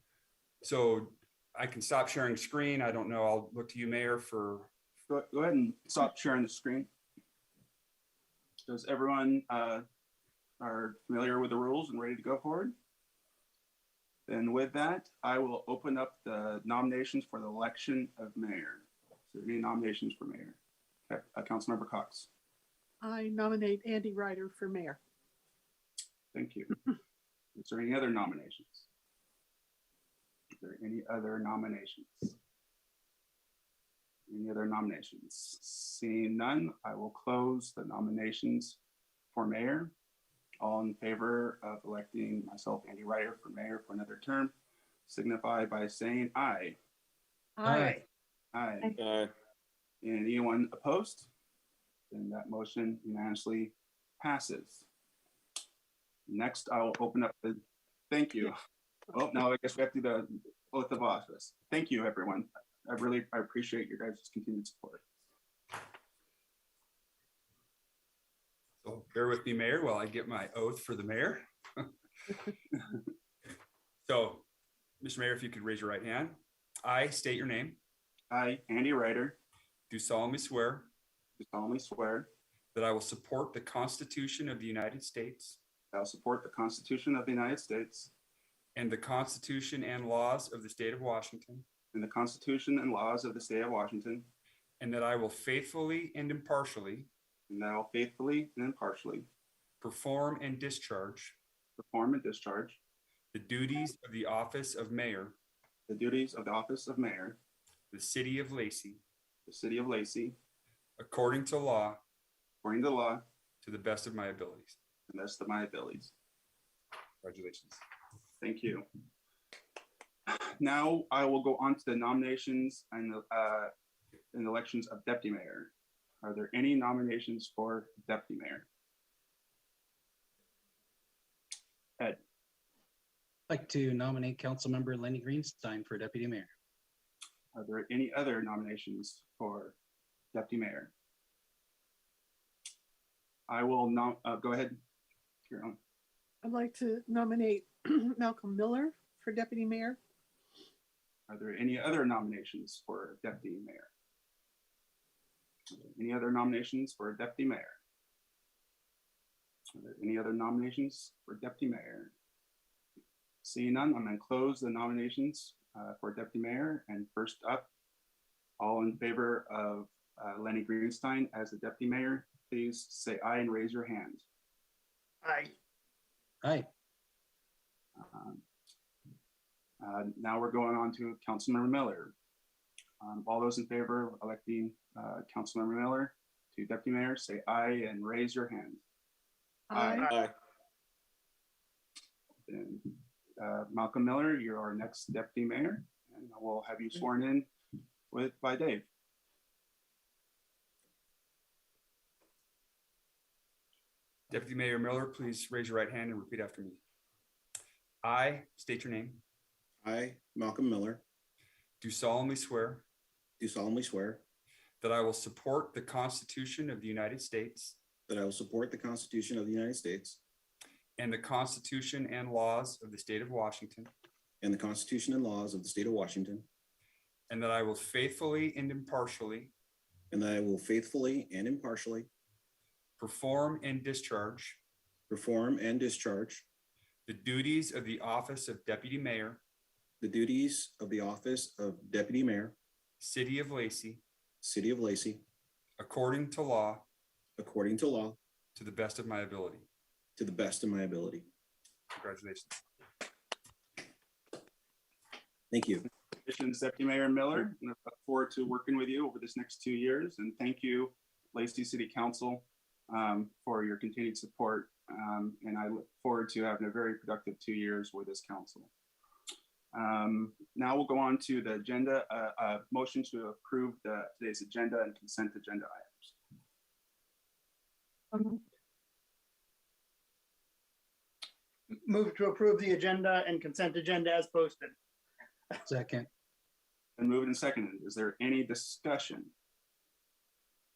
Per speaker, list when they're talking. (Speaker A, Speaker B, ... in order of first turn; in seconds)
Speaker A: 0.6-4.7, 68.8-71.9, 74.0-74.5, 75.0-77.8, 79.9-80.9, 82.7-85.6, 88.7-91.7, 94.8-97.1, 99.8-101.4, 103.3-105.4, 107.9-109.0, 111.0-112.0, 113.6-114.8, 117.2-117.8, 204.3-206.8, 208.0-209.2, 211.8-212.8, 214.8-217.8, 221.0-223.9, 227.3-229.5, 233.0-234.6, 237.1-239.4, 243.0-244.0, 245.8-246.8, 248.5-249.7, 251.9-252.6
Speaker B: 5.1-6.9, 8.7-9.8, 10.6-12.7, 14.3-20.6, 21.1-22.3, 26.3-26.7, 27.6-28.9, 30.6-32.3, 34.3-38.8, 39.3-39.9, 40.6-44.5, 45.1-46.8, 48.5-49.0, 50.0-51.3, 52.1-54.9, 56.3-58.5, 59.1-65.0, 78.3-79.4, 81.4-82.3, 85.9-88.1, 91.9-94.2, 97.5-99.3, 101.8-102.8, 105.9-107.4, 109.5-110.3, 112.6-113.2, 115.1-116.1, 118.4-118.8, 120.3-123.7, 124.3-128.7, 137.5-139.8, 140.3-140.9, 143.5-144.8, 145.5-145.8, 151.3-153.9, 155.7-157.8, 159.7-162.1, 163.4-167.7, 168.6-174.2, 178.0-178.4, 179.8-182.1, 183.0-188.8, 189.7-190.1, 192.5-197.5, 198.1-198.9, 256.2-268.7, 269.7-276.2, 287.0-289.3
Speaker C: 23.0-25.0, 47.6-48.0, 146.4-150.0, 189.7-190.1
Speaker D: 47.6-48.0, 133.5-136.5, 176.4-176.7, 285.6-286.1
Speaker E: 175.2-175.5, 281.7-284.7
Speaker F: 209.8-211.0, 213.4-214.2, 218.1-220.2, 224.4-226.5, 230.1-232.1, 235.1-236.4, 240.0-242.6, 244.4-245.2, 247.4-248.2, 250.2-251.3, 255.5-255.9